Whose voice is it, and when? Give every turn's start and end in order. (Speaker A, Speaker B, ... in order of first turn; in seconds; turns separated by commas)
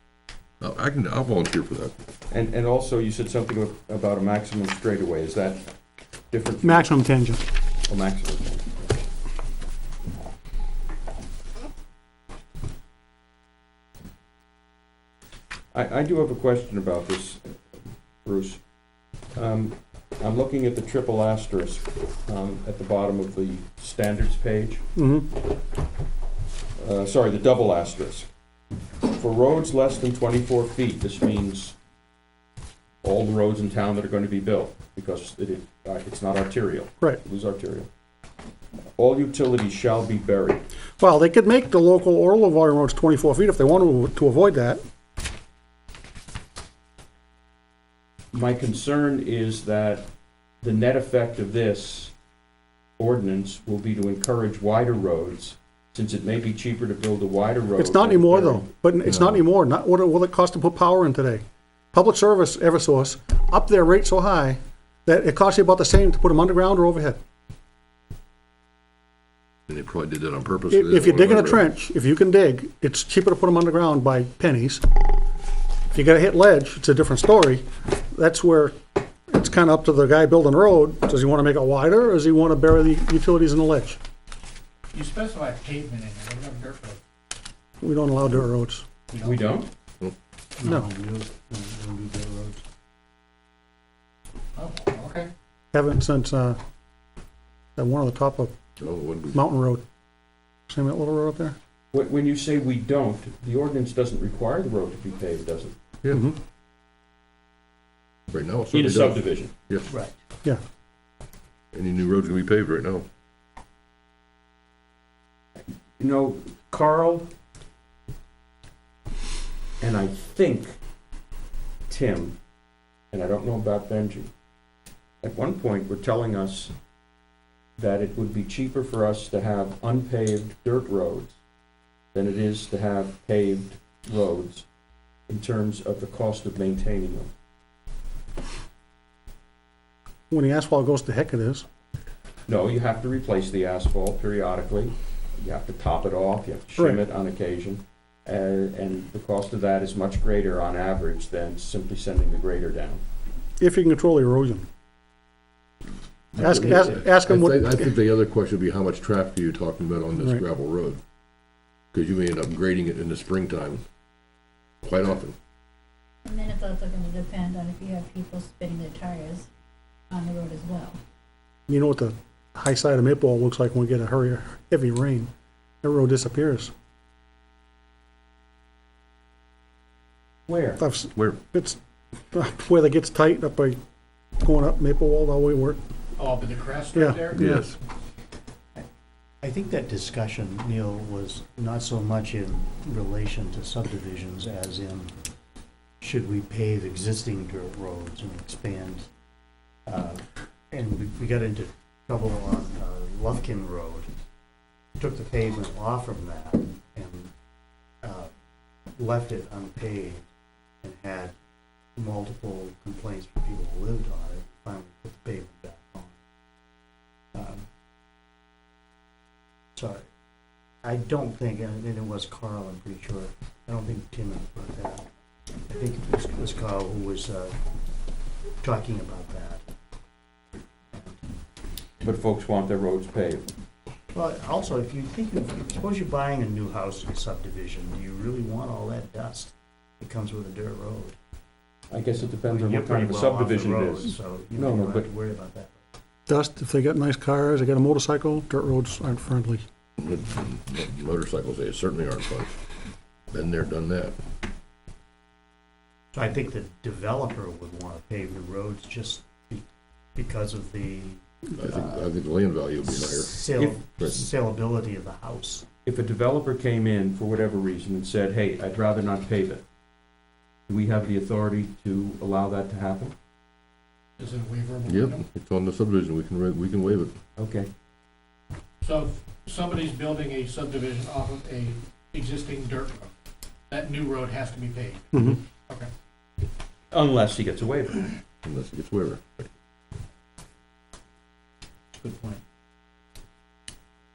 Speaker A: 0.6-2.0, Speaker B: 2.3-5.6, Speaker B: 6.3-7.0, Speaker C: 6.6-7.4, Speaker B: 7.9-9.0, Speaker B: 15.7-17.6, Speaker B: 18.2-18.6, Speaker B: 19.3-24.8, Speaker C: 24.9-25.4, Speaker B: 26.8-28.3, Speaker B: 29.1-31.8, Speaker B: 33.0-37.9, Speaker B: 39.0-40.6, Speaker C: 41.0-44.8, Speaker B: 48.3-50.1, Speaker B: 50.6-52.1, Speaker B: 53.0-58.6, Speaker C: 57.8-67.2, Speaker A: 59.1-59.4, Speaker A: 69.7-71.7, Speaker C: 70.7-74.8, Speaker C: 75.9-84.0, Speaker D: 84.9-87.0, Speaker C: 87.8-88.9, Speaker D: 89.1-89.5, Speaker B: 89.2-89.7, Speaker E: 90.6-92.6, Speaker D: 94.5-95.3, Speaker C: 95.7-96.6, Speaker C: 97.8-98.5, Speaker A: 98.8-99.4, Speaker C: 99.3-99.8, Speaker C: 100.7-101.5, Speaker B: 101.9-105.8, Speaker A: 108.3-109.9, Speaker B: 108.7-109.5, Speaker E: 109.9-110.1, Speaker A: 111.7-113.0, Speaker B: 115.5-117.3, Speaker B: 119.8-120.8, Speaker B: 121.9-122.4, Speaker B: 123.1-124.3, Speaker B: 125.2-126.7, Speaker B: 127.8-131.4, Speaker B: 132.1-134.7, Speaker B: 135.3-137.3, Speaker C: 140.3-141.7, Speaker B: 142.5-153.0, Speaker C: 153.6-154.7, Speaker A: 156.3-161.0, Speaker C: 156.4-157.9, Speaker C: 160.2-160.4, Speaker A: 161.9-163.8, Speaker A: 164.8-165.3, Speaker F: 166.2-169.5, Speaker F: 170.1-171.0, Speaker C: 171.7-175.3, Speaker C: 175.8-176.7, Speaker B: 180.5-180.8, Speaker C: 180.8-181.8, Speaker C: 182.3-183.8, Speaker C: 184.4-185.8, Speaker D: 186.2-187.4, Speaker C: 186.9-187.6, Speaker A: 187.3-187.8, Speaker E: 189.4-195.1, Speaker E: 196.0-199.1, Speaker E: 199.8-204.1, Speaker E: 205.0-207.3, Speaker E: 208.0-208.3, Speaker E: 209.0-210.2, Speaker E: 210.8-211.3, Speaker E: 212.0-216.2, Speaker E: 217.3-217.7, Speaker E: 219.8-220.1, Speaker E: 220.8-225.1, Speaker E: 225.7-227.6, Speaker E: 228.6-229.6, Speaker E: 230.9-231.2, Speaker B: 232.0-233.4, Speaker E: 234.1-241.2, Speaker B: 241.9-245.1, Speaker E: 242.2-245.8, Speaker C: 246.3-249.6, Speaker A: 250.0-252.6, Speaker A: 253.3-254.2, Speaker E: 256.1-262.0, Speaker A: 261.6-263.5, Speaker E: 262.9-265.7, Speaker B: 263.6-263.8, Speaker A: 264.0-264.3, Speaker B: 265.9-269.6, Speaker B: 270.7-273.1, Speaker D: 274.2-275.2, Speaker A: 274.9-277.1, Speaker B: 277.4-277.7, Speaker D: 278.8-283.1, Speaker D: 283.7-285.1, Speaker B: 286.9-288.2, Speaker A: 288.4-289.5, Speaker D: 292.0-292.4